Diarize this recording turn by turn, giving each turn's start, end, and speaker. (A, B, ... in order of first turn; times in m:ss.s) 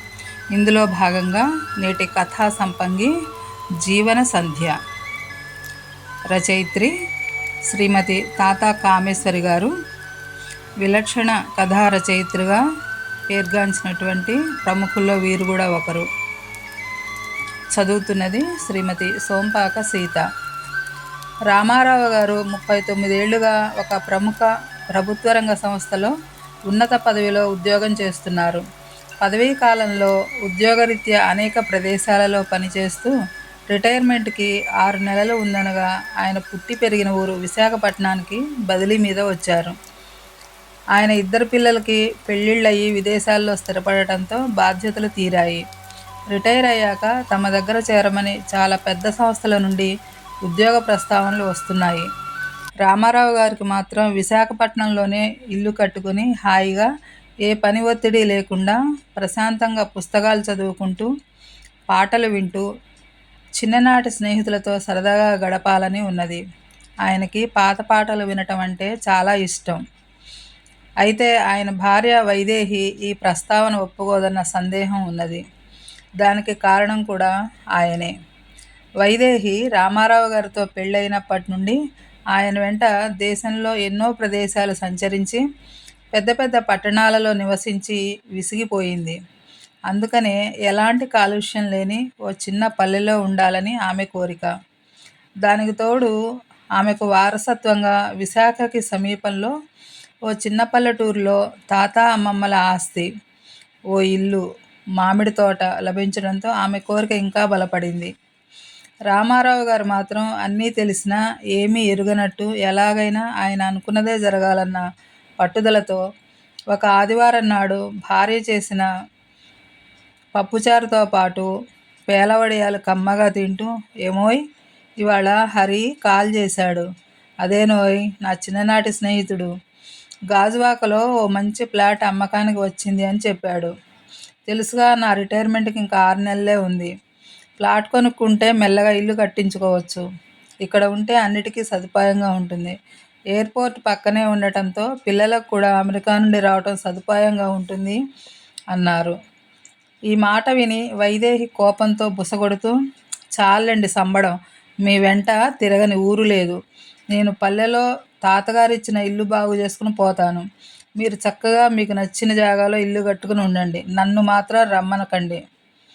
0:00.5-0:03.1 A
0:03.8-0:04.8 A
0:06.3-0:06.9 A
0:07.7-0:09.7 A
0:10.8-0:12.6 A
0:13.3-0:16.1 A
0:17.7-0:20.3 A
0:21.5-0:26.1 A
0:26.7-0:28.6 A
0:29.2-0:33.1 A
0:33.7-0:39.8 A
0:41.0-0:45.6 A
0:46.3-0:49.9 A
0:50.4-0:52.1 A
0:52.8-0:56.9 A
0:57.4-1:01.1 A
1:01.9-1:02.7 A
1:03.6-1:06.4 A
1:07.0-1:09.8 A
1:11.0-1:15.4 A
1:16.2-1:18.1 A
1:19.0-1:21.8 A
1:22.3-1:25.4 A
1:26.1-1:29.2 A
1:29.9-1:34.5 A
1:35.4-1:36.1 A
1:36.8-1:39.5 A
1:40.3-1:43.1 A
1:43.9-1:44.4 A
1:45.0-1:48.1 A
1:49.1-1:54.8 A
1:55.4-1:56.0 A
1:56.7-1:58.9 A
2:00.4-2:01.5 A
2:02.1-2:04.4 A
2:05.0-2:06.9 A
2:07.4-2:09.5 A
2:10.3-2:13.7 A
2:14.5-2:16.9 A
2:17.6-2:20.0 A
2:20.6-2:22.8 A
2:23.3-2:28.0 A
2:28.7-2:29.2 A
2:30.1-2:32.8 A
2:33.4-2:36.6 A
2:37.1-2:40.4 A
2:41.0-2:45.4 A